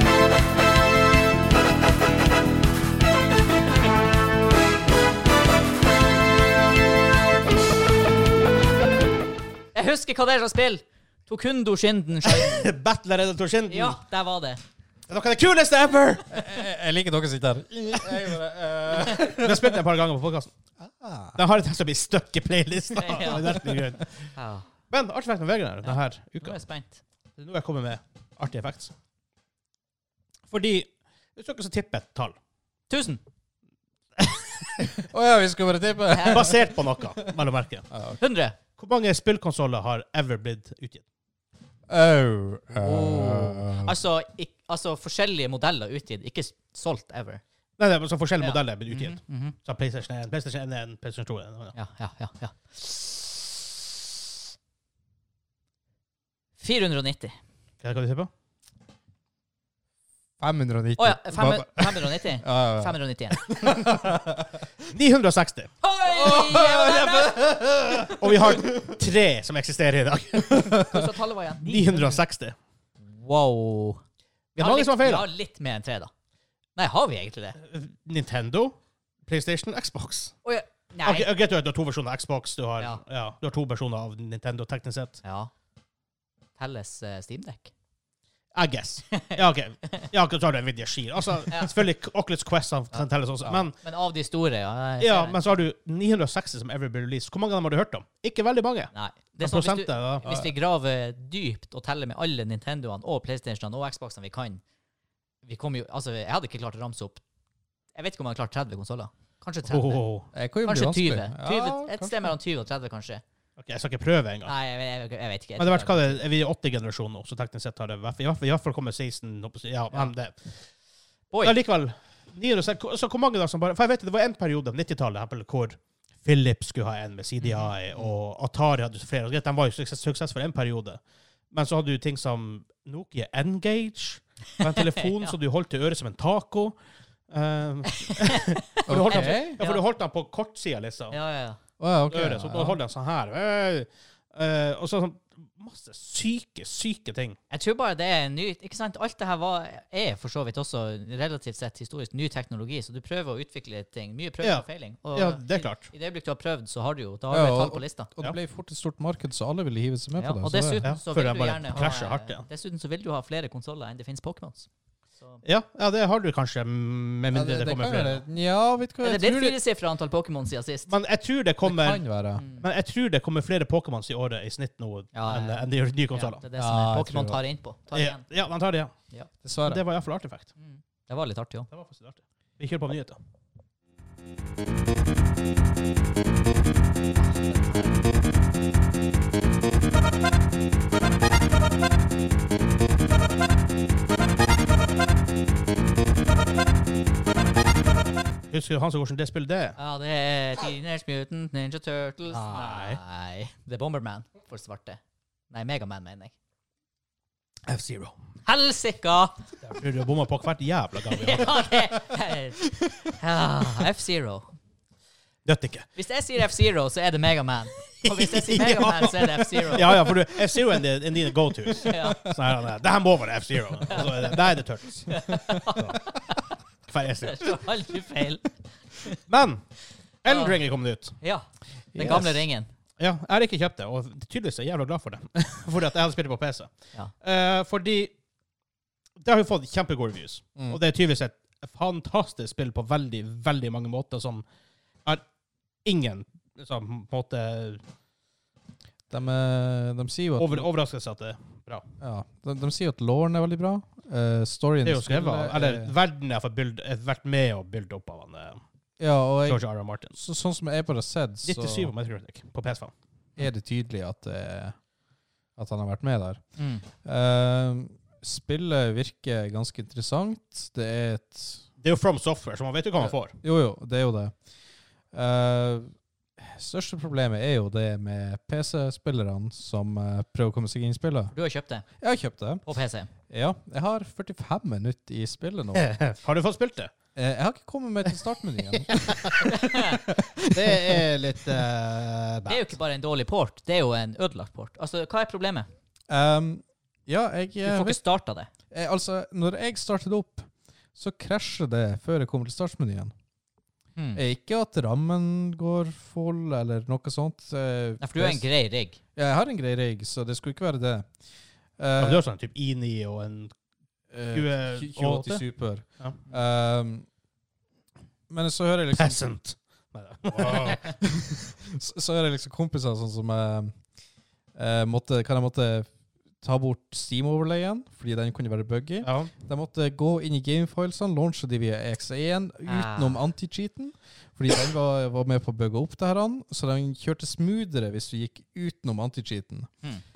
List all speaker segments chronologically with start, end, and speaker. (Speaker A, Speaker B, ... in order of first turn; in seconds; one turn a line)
Speaker A: 9.7-12.7
Speaker B: 12.2-14.0
Speaker A: 13.7-14.6
Speaker B: 15.1-16.3
Speaker C: 16.3-19.8
Speaker B: 19.0-20.5
Speaker C: 20.8-21.4
Speaker B: 21.4-24.3
Speaker A: 23.0-23.6
Speaker A: 24.4-24.7
Speaker B: 24.9-26.6
Speaker A: 25.8-27.0
Speaker B: 27.4-28.9
Speaker B: 30.5-32.4
Speaker A: 32.9-33.2
Speaker B: 34.2-34.8
Speaker C: 35.0-37.3
Speaker A: 36.1-36.5
Speaker B: 36.3-37.9
Speaker C: 37.9-38.2
Speaker A: 38.2-38.6
Speaker B: 38.8-41.0
Speaker C: 41.9-43.9
Speaker A: 42.8-47.4
Speaker B: 47.8-51.8
Speaker A: 48.4-49.6
Speaker A: 51.7-53.5
Speaker A: 56.6-57.4
Speaker B: 57.8-58.3
Speaker C: 60.4-64.6
Speaker A: 61.0-63.5
Speaker B: 64.9-65.7
Speaker A: 65.8-68.3
Speaker C: 66.1-68.8
Speaker B: 68.2-71.0
Speaker A: 70.7-72.2
Speaker B: 71.6-72.6
Speaker A: 73.0-74.0
Speaker B: 74.5-75.3
Speaker A: 74.6-76.1
Speaker A: 76.8-77.6
Speaker B: 77.6-78.8
Speaker B: 79.3-80.4
Speaker A: 80.5-81.3
Speaker B: 81.0-85.2
Speaker A: 85.2-85.5
Speaker A: 86.6-87.7
Speaker B: 88.5-93.8
Speaker A: 92.9-95.4
Speaker B: 95.0-100.5
Speaker A: 98.9-104.6
Speaker A: 105.4-107.2
Speaker A: 108.0-110.0
Speaker B: 109.7-110.3
Speaker C: 110.3-112.3
Speaker A: 110.6-113.2
Speaker B: 113.6-114.5
Speaker A: 114.5-116.2
Speaker B: 115.6-120.5
Speaker B: 121.4-131.0
Speaker A: 127.4-128.1
Speaker B: 131.5-136.8
Speaker A: 134.8-135.3
Speaker B: 137.3-141.2
Speaker A: 137.9-139.8
Speaker C: 138.9-139.6
Speaker A: 141.1-141.6
Speaker C: 141.8-142.8
Speaker B: 142.1-147.4
Speaker A: 147.5-158.1
Speaker B: 154.4-155.9
Speaker C: 157.3-160.8
Speaker A: 160.2-164.7
Speaker B: 160.8-162.4
Speaker B: 165.4-168.2
Speaker C: 167.3-169.6
Speaker A: 169.0-170.9
Speaker B: 170.9-172.1
Speaker C: 171.6-172.4
Speaker A: 172.4-172.7
Speaker B: 172.6-176.4
Speaker A: 175.1-178.2
Speaker C: 176.6-177.4
Speaker B: 177.9-178.9
Speaker C: 179.4-179.8
Speaker B: 179.6-180.5
Speaker A: 180.6-181.7
Speaker B: 181.7-183.2
Speaker A: 187.2-188.0
Speaker B: 198.5-199.8
Speaker A: 199.8-205.0
Speaker B: 202.3-203.0
Speaker A: 205.5-206.3
Speaker B: 207.7-208.2
Speaker A: 208.5-209.4
Speaker B: 209.6-211.9
Speaker A: 211.1-214.5
Speaker B: 215.4-215.9
Speaker A: 216.0-220.1
Speaker B: 218.0-226.0
Speaker C: 221.8-222.3
Speaker A: 221.8-222.3
Speaker A: 223.9-224.3
Speaker A: 225.1-226.6
Speaker C: 225.4-225.6
Speaker B: 226.9-227.6
Speaker A: 227.2-229.2
Speaker B: 229.3-229.6
Speaker B: 230.2-231.2
Speaker A: 230.3-230.6
Speaker A: 231.2-232.7
Speaker C: 231.9-232.4
Speaker B: 233.0-238.1
Speaker B: 239.2-244.4
Speaker B: 245.8-247.8
Speaker C: 249.1-250.7
Speaker B: 250.4-251.9
Speaker C: 252.0-255.9
Speaker B: 254.8-258.6
Speaker C: 259.0-259.6
Speaker B: 259.4-260.2
Speaker C: 260.1-261.9
Speaker B: 261.4-262.9
Speaker C: 263.4-264.8
Speaker C: 265.6-266.4
Speaker A: 266.6-266.9
Speaker C: 267.0-271.6
Speaker B: 271.8-273.4
Speaker C: 273.0-274.4
Speaker C: 275.1-281.3
Speaker A: 281.3-281.9
Speaker C: 282.0-282.6
Speaker A: 282.6-283.1
Speaker C: 283.3-285.9
Speaker B: 285.7-286.9
Speaker C: 287.2-291.1
Speaker B: 288.9-289.5
Speaker A: 289.4-290.0
Speaker B: 290.4-292.7
Speaker A: 292.5-295.7
Speaker C: 296.1-298.0
Speaker A: 297.6-298.5
Speaker C: 298.7-303.1
Speaker A: 304.0-304.2
Speaker C: 304.1-308.4
Speaker A: 308.0-309.0
Speaker C: 309.2-311.1
Speaker C: 311.8-312.2
Speaker B: 312.0-313.5
Speaker C: 314.1-317.1
Speaker B: 314.3-315.4
Speaker C: 318.3-319.3
Speaker B: 319.0-321.2
Speaker C: 320.3-323.8
Speaker C: 324.6-325.9
Speaker C: 326.4-339.7
Speaker B: 329.0-329.3
Speaker A: 332.7-333.2